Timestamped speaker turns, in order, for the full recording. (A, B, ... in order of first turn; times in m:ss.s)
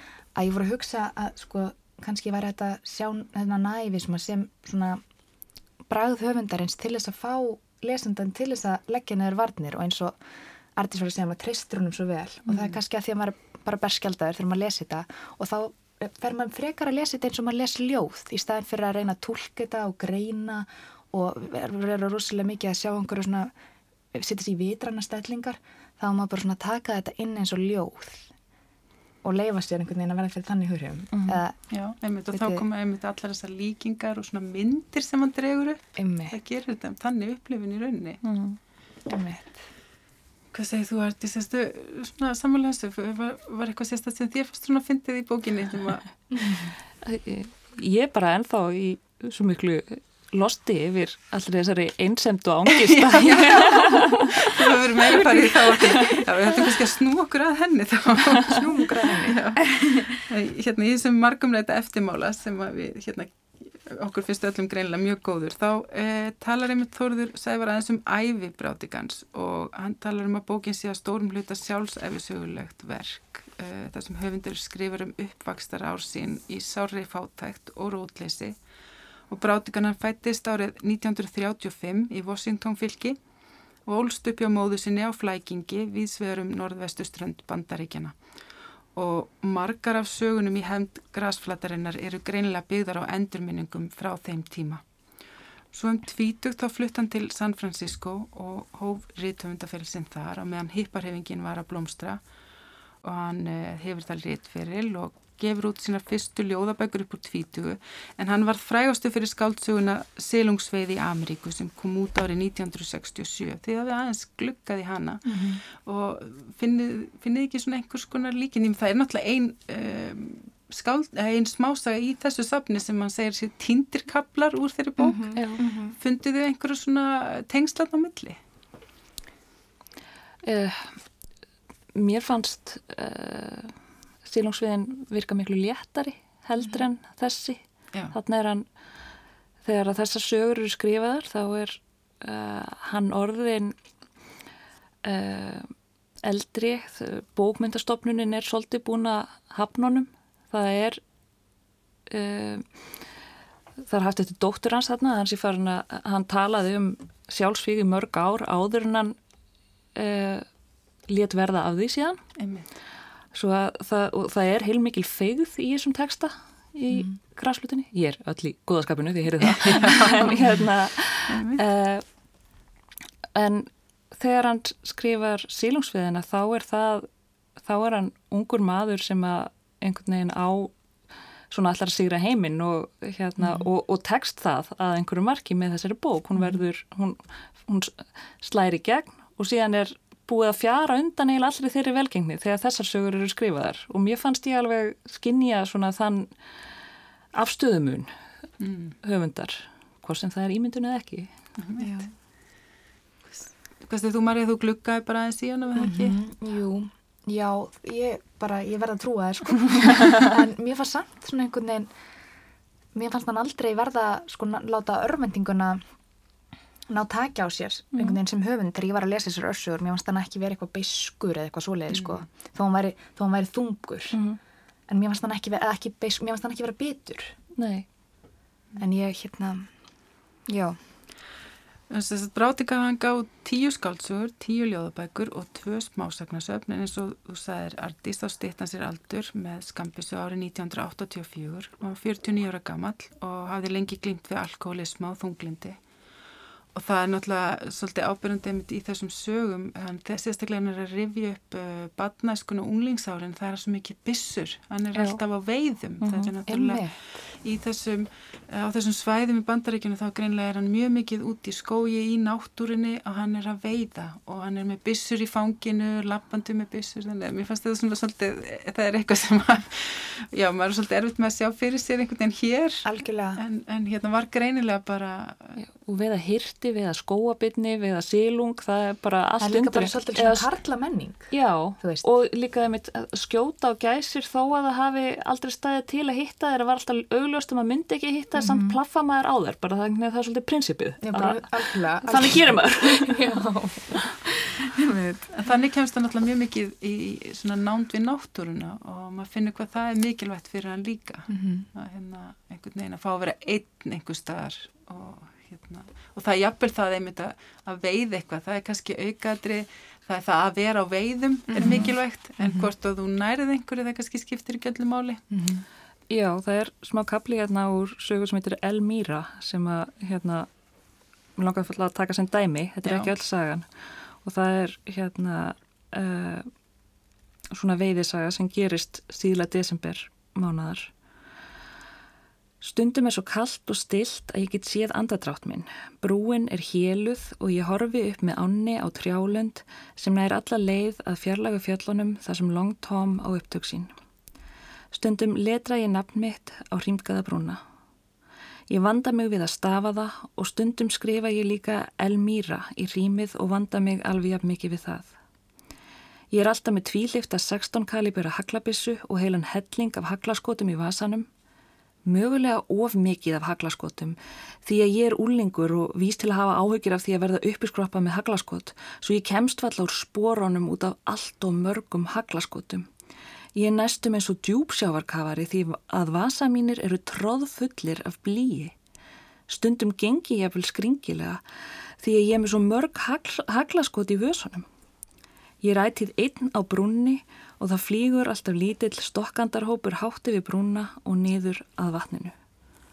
0:00.3-0:05.0 A
0:05.9-0:10.2 A
0:10.8-0:23.5 A
0:12.5-0:12.8 B
0:24.1-0:28.3 A
0:29.2-0:31.6 A
0:31.1-0:31.4 C
0:31.7-0:38.2 B
0:32.3-0:32.6 A
0:36.0-0:36.4 A
0:38.2-0:38.6 C
0:39.1-0:39.6 A
0:40.5-0:46.1 B
0:46.3-0:46.7 A
0:47.0-0:54.6 C
0:52.7-1:18.6 B
0:55.7-0:56.2 C
0:58.5-0:59.8 A
1:19.3-1:23.2 B
1:23.8-1:28.2 B
1:29.0-1:34.8 B
1:35.7-1:42.2 B
1:43.0-2:08.4 B
1:55.2-1:55.6 A
2:05.0-2:06.0 A
2:05.4-2:05.6 C
2:10.4-2:11.0 C
2:11.9-2:17.6 C
2:18.1-2:18.6 C
2:19.6-2:23.8 C
2:25.0-2:31.0 C
2:32.1-2:32.7 C
2:33.8-2:39.2 C
2:39.9-2:40.5 C
2:41.1-2:42.2 C
2:42.4-2:42.7 B
2:43.3-2:52.0 C
2:49.6-2:50.3 B
2:51.3-2:51.6 B
2:53.3-2:57.1 C
2:57.6-3:00.7 C
3:01.5-3:16.3 C
3:03.4-3:03.6 A
3:17.3-3:18.1 C
3:18.6-3:19.0 B
3:19.0-3:21.3 C
3:21.6-3:21.9 B
3:21.8-3:22.1 A
3:23.3-3:26.2 B
3:25.7-3:31.9 A
3:32.9-3:35.8 A
3:36.9-3:44.2 A
3:37.9-3:38.2 C
3:41.9-3:42.2 B
3:44.1-3:44.4 C
3:44.9-3:47.3 A
3:47.6-3:47.8 C
3:48.8-3:49.7 A
3:50.5-3:50.8 A
3:51.9-4:05.8 B
4:06.7-4:35.6 B
4:14.9-4:15.2 C
4:16.0-4:16.3 C
4:16.5-4:16.9 A
4:32.8-4:33.4 A
4:35.6-4:40.5 C
4:39.4-4:42.1 A
4:41.3-4:53.2 C
4:48.4-4:48.8 A
4:51.0-4:55.3 A
4:55.3-5:15.2 B
5:01.3-5:01.7 A
5:11.5-5:12.7 A
5:11.6-5:11.9 C
5:15.3-5:15.6 A
5:16.1-5:20.5 C
5:21.4-5:23.7 C
5:22.8-5:23.1 B
5:24.2-5:26.5 C
5:27.5-5:30.9 C
5:32.6-5:43.9 C
5:44.9-5:47.6 C
5:48.7-5:55.1 C
5:56.3-6:01.3 C
6:02.0-6:12.9 C
6:13.5-6:18.7 C
6:19.5-6:21.4 C
6:22.0-6:24.6 C
6:25.6-6:32.3 C